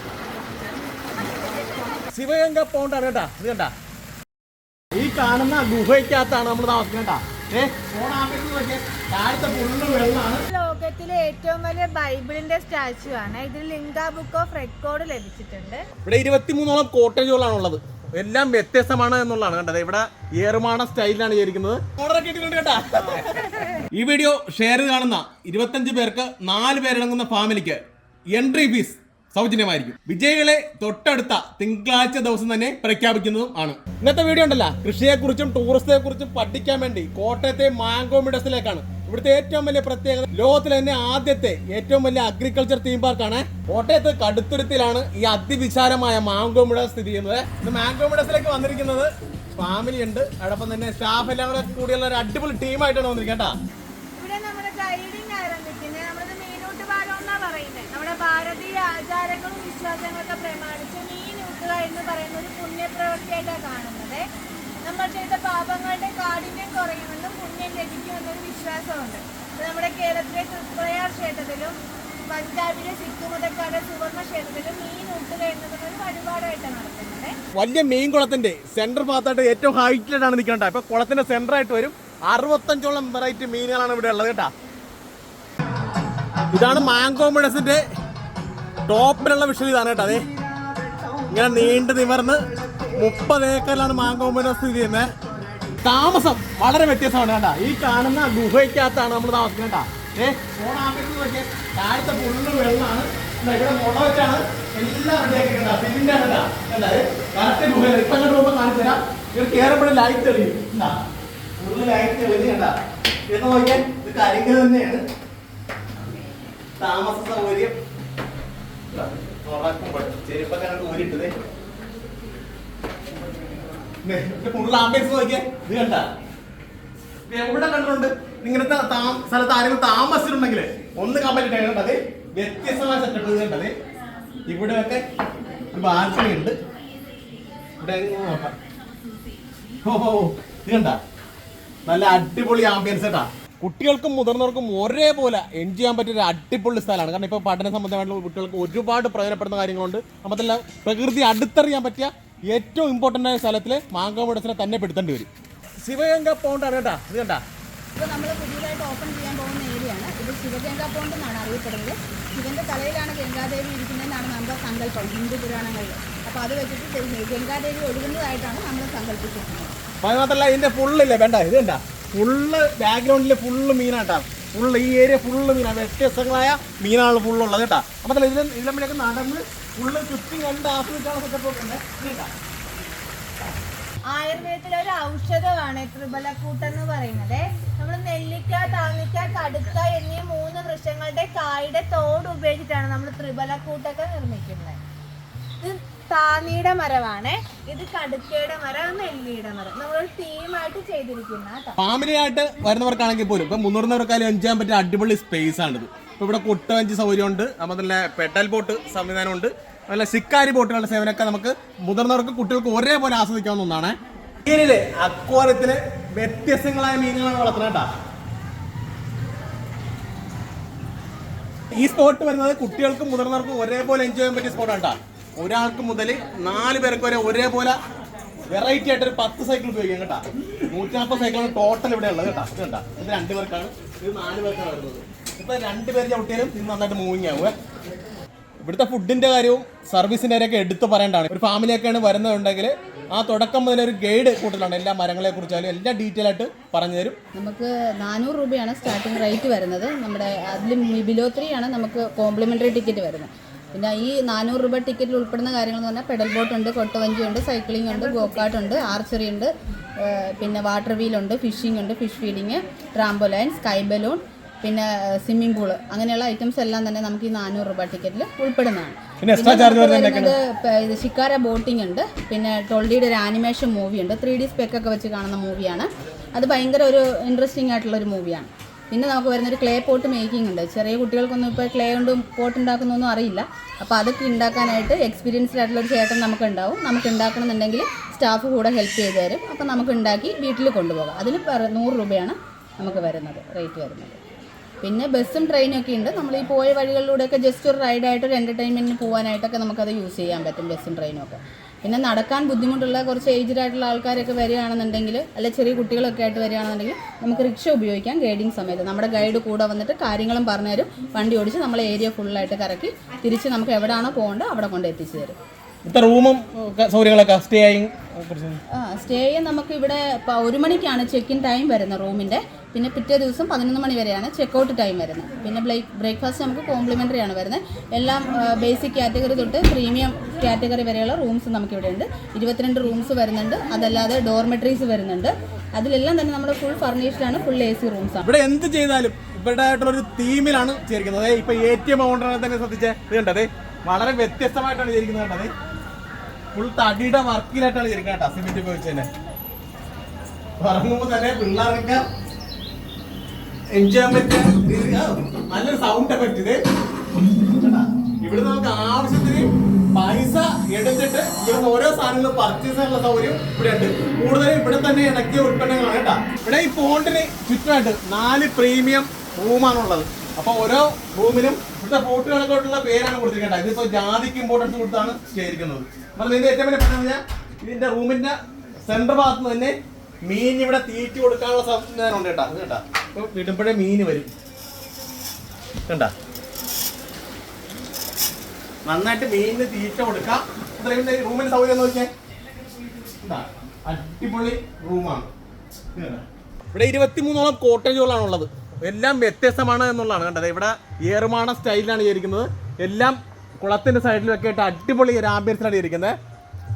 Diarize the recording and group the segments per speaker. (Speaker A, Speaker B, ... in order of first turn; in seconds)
Speaker A: 2.1-3.7, 4.9-10.4, 16.0-27.8, 28.3-53.5, 77.5-84.5, 86.5-87.8, 88.9-90.2, 91.3-92.4, 92.9-95.1, 95.8-111.0, 111.6-112.7, 113.3-115.0, 116.8-117.8, 118.9-121.3, 124.0-126.1, 127.3-133.7, 134.5-135.0, 135.7-136.6, 137.8-138.6, 139.8-141.0, 141.9-155.3, 155.8-157.4, 170.0-182.3, 201.8-217.9, 221.7-227.8, 228.5-237.5, 238.6-247.2, 269.2-270.3, 315.9-318.6, 338.2-345.5, 346.5-349.1, 350.6-352.0, 353.7-356.6, 357.1-384.3, 385.9-386.1, 388.9-392.1, 393.2-395.3, 396.0-406.2
Speaker B: 10.5-15.8, 54.2-64.2, 64.8-71.8, 72.3-77.3, 184.1-194.8, 195.6-201.8, 257.9-258.7
Speaker C: 157.9-169.8, 247.4-294.2, 294.8-315.4, 318.8-338.2